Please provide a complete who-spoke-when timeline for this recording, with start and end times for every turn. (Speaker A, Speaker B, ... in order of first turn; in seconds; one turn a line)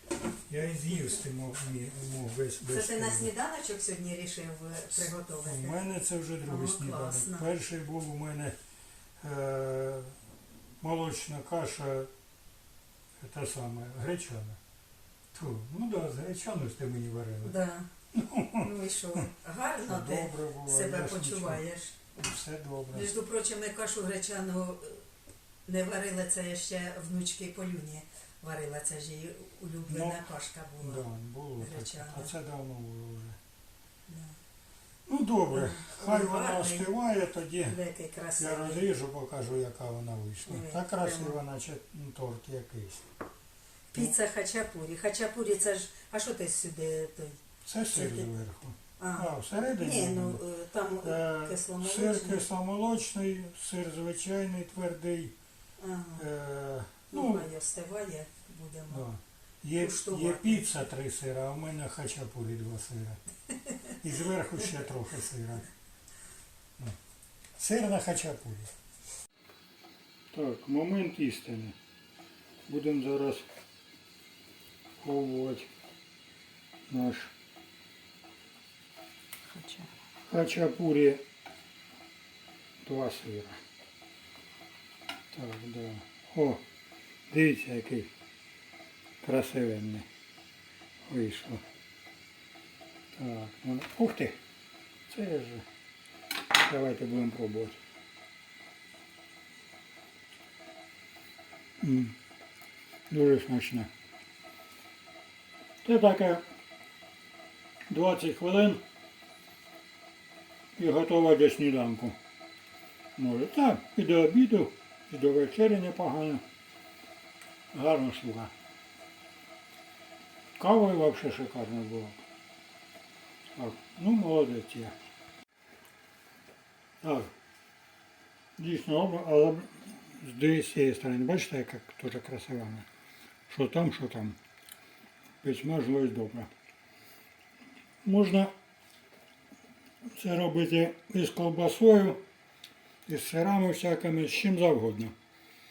Speaker A: 0.5-3.3
Speaker B: 2.7-5.8
Speaker A: 4.9-8.6
Speaker B: 6.4-7.5
Speaker A: 9.2-10.2
Speaker A: 10.8-12.1
Speaker A: 13.2-14.6
Speaker A: 15.3-17.6
Speaker B: 17.4-17.9
Speaker A: 18.1-19.2
Speaker B: 18.5-22.0
Speaker A: 19.8-23.1
Speaker B: 22.9-25.0
Speaker B: 25.6-31.0
Speaker A: 29.9-30.2
Speaker A: 30.8-33.4
Speaker B: 31.6-32.3
Speaker B: 34.1-34.4
Speaker A: 35.0-37.8
Speaker B: 35.5-36.9
Speaker B: 37.7-38.9
Speaker A: 38.4-43.0
Speaker B: 40.5-41.4
Speaker B: 43.9-48.3
Speaker A: 47.6-50.4
Speaker B: 49.0-52.5
Speaker A: 51.0-55.3
Speaker B: 55.8-56.2
Speaker A: 56.2-57.5
Speaker B: 57.1-59.0
Speaker A: 58.9-63.2
Speaker B: 59.8-60.9
Speaker A: 64.0-65.7
Speaker A: 67.6-68.7
Speaker A: 70.3-71.7
Speaker A: 72.7-73.5
Speaker A: 75.0-75.7
Speaker A: 76.9-77.3
Speaker B: 79.5-79.9
Speaker A: 80.3-81.2
Speaker A: 82.8-83.6
Speaker A: 85.3-86.6
Speaker A: 87.3-88.1
Speaker A: 89.2-90.1
Speaker A: 91.1-91.6
Speaker A: 93.1-94.4
Speaker A: 95.1-95.7
Speaker A: 96.5-97.8
Speaker A: 101.8-102.2
Speaker A: 103.1-103.9
Speaker A: 105.8-106.4
Speaker A: 107.9-108.8
Speaker A: 110.8-112.2
Speaker A: 113.2-116.4
Speaker A: 117.7-118.5
Speaker A: 120.6-122.2
Speaker A: 123.5-124.9
Speaker A: 127.0-127.3
Speaker A: 128.6-132.8
Speaker A: 133.5-134.4
Speaker A: 135.4-136.5
Speaker A: 138.0-138.5
Speaker A: 140.2-142.2
Speaker A: 143.1-145.1